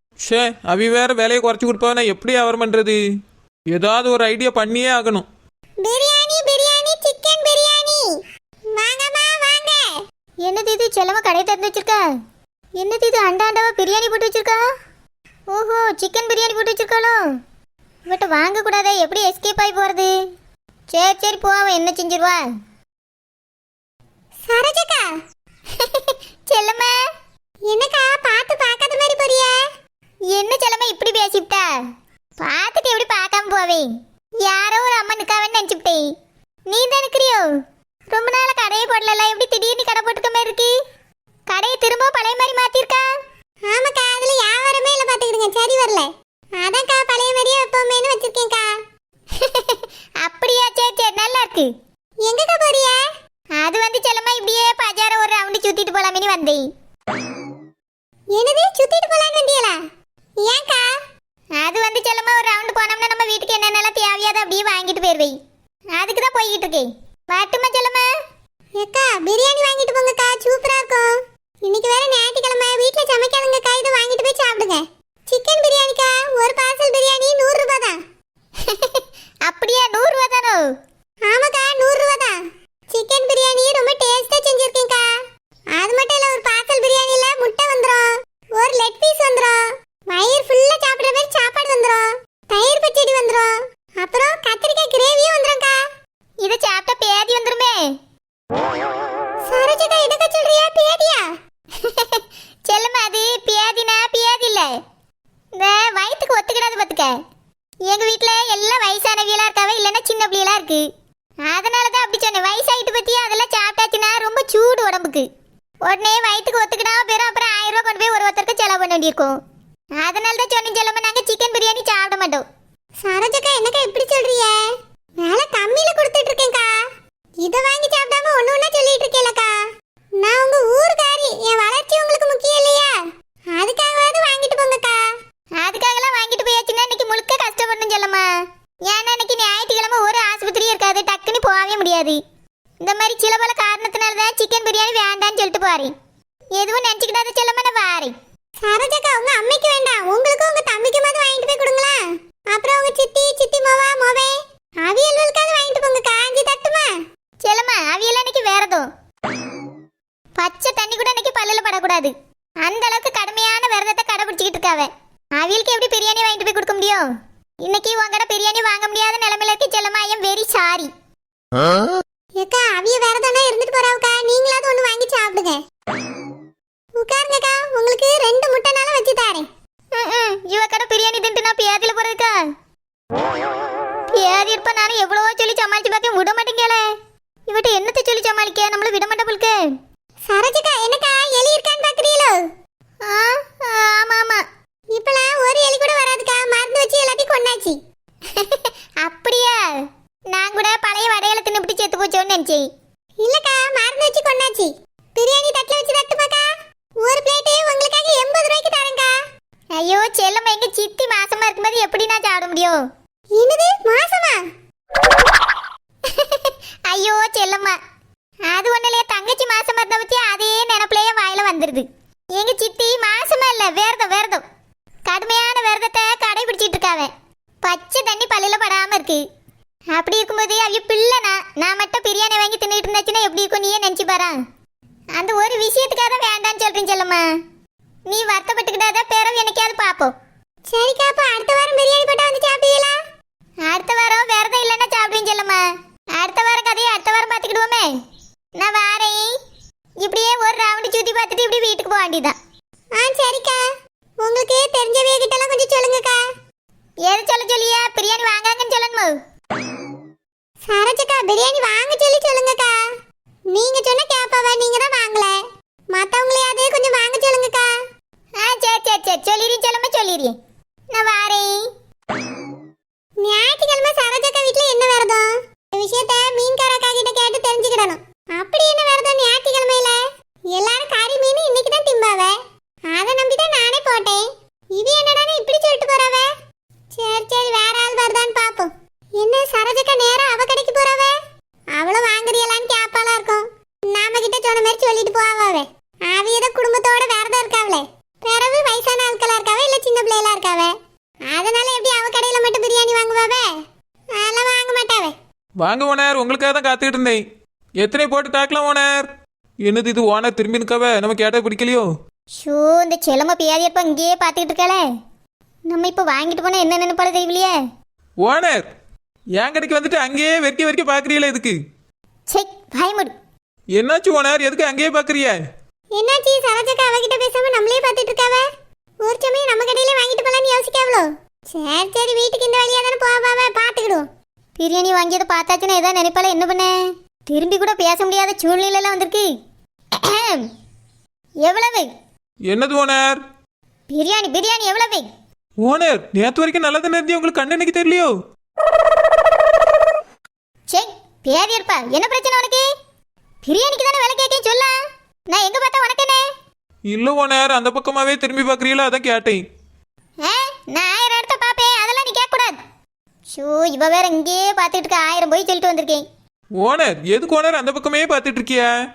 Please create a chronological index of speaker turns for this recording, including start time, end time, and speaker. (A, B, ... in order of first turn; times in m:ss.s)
0:00.2-0:03.0 A
0:03.7-0:05.2 A
0:05.8-0:08.1 B
0:08.7-0:09.9 B
0:10.4-0:12.0 C
0:12.8-0:14.6 C
0:15.5-0:17.2 C
0:18.1-0:20.1 C
0:20.9-0:22.4 C
0:24.4-0:25.1 B
0:25.8-0:26.9 C
0:27.7-0:29.6 B
0:30.3-0:31.7 C
0:32.4-0:33.9 C
0:34.4-0:36.0 C
0:36.7-0:37.5 C
0:38.1-0:40.7 C
0:41.5-0:43.0 C
0:43.6-0:48.7 B
0:49.3-0:51.7 C
0:52.2-0:53.0 B
0:53.6-0:56.6 C
0:58.3-0:59.8 B
1:00.4-1:00.9 B
1:01.6-1:05.3 C
1:05.9-1:08.0 C
1:08.8-1:18.0 B
1:18.6-1:20.6 C
1:21.2-1:22.4 B
1:22.9-1:25.0 B
1:25.7-1:35.8 B
1:36.4-1:37.8 C
1:39.5-1:41.3 B
1:41.8-1:44.7 C
1:45.6-1:47.1 C
1:47.9-1:50.8 C
1:51.5-1:55.2 C
1:55.9-1:59.3 C
2:00.0-2:02.4 C
2:03.0-2:04.6 B
2:05.2-2:06.8 B
2:07.4-2:09.6 B
2:10.2-2:12.9 B
2:13.5-2:15.0 B
2:15.6-2:18.3 C
2:18.9-2:22.2 C
2:22.8-2:25.9 C
2:26.6-2:28.1 C
2:28.6-2:32.0 B
2:32.5-2:36.9 B
2:37.4-2:38.9 C
2:40.4-2:42.1 C
2:42.6-2:47.0 C
2:47.6-2:50.9 C
2:52.4-2:55.6 B
2:57.0-2:59.5 B
2:59.9-3:02.4 C
3:04.1-3:06.8 C
3:07.5-3:09.6 C
3:10.3-3:12.4 B
3:13.0-3:14.4 C
3:14.9-3:17.8 B
3:18.3-3:19.8 C
3:20.3-3:22.7 C
3:23.2-3:26.5 B
3:27.0-3:29.1 B
3:29.8-3:32.8 C
3:33.3-3:34.4 B
3:36.1-3:37.8 C
3:38.5-3:44.4 C
3:45.1-3:47.1 C
3:47.6-3:49.2 C
3:49.9-3:54.4 C
3:55.2-3:57.2 C
3:58.1-4:00.1 C
4:00.7-4:03.0 B
4:03.6-4:05.6 C
4:06.2-4:07.9 C
4:08.6-4:09.3 C
4:10.0-4:12.3 C
4:12.9-4:13.6 B
4:14.2-4:16.2 B
4:17.1-4:19.2 C
4:20.7-4:22.8 B
4:23.5-4:25.4 B
4:25.9-4:27.7 B
4:28.4-4:30.3 C
4:30.9-4:31.6 C
4:33.2-4:46.3 B
4:46.9-4:51.2 B
4:51.7-5:00.7 B
5:01.3-5:03.5 B
5:04.1-5:05.2 B
5:05.6-5:07.2 A
5:07.8-5:09.1 A
5:09.6-5:11.9 A
5:12.4-5:14.8 C
5:15.7-5:17.6 C
5:18.2-5:18.7 A
5:19.4-5:21.6 A
5:22.3-5:23.1 C
5:23.8-5:25.4 A
5:25.9-5:28.4 B
5:29.0-5:34.0 B
5:34.6-5:36.8 C
5:37.3-5:39.3 C
5:40.0-5:40.4 C
5:41.4-5:41.9 C
5:42.5-5:43.2 A
5:43.9-5:45.1 C
5:45.6-5:48.1 A
5:50.7-5:52.7 C
5:53.4-5:54.7 C
5:55.3-5:56.2 C
5:56.9-5:59.4 A
6:00.2-6:02.6 C
6:03.3-6:06.0 C
6:06.6-6:08.7 A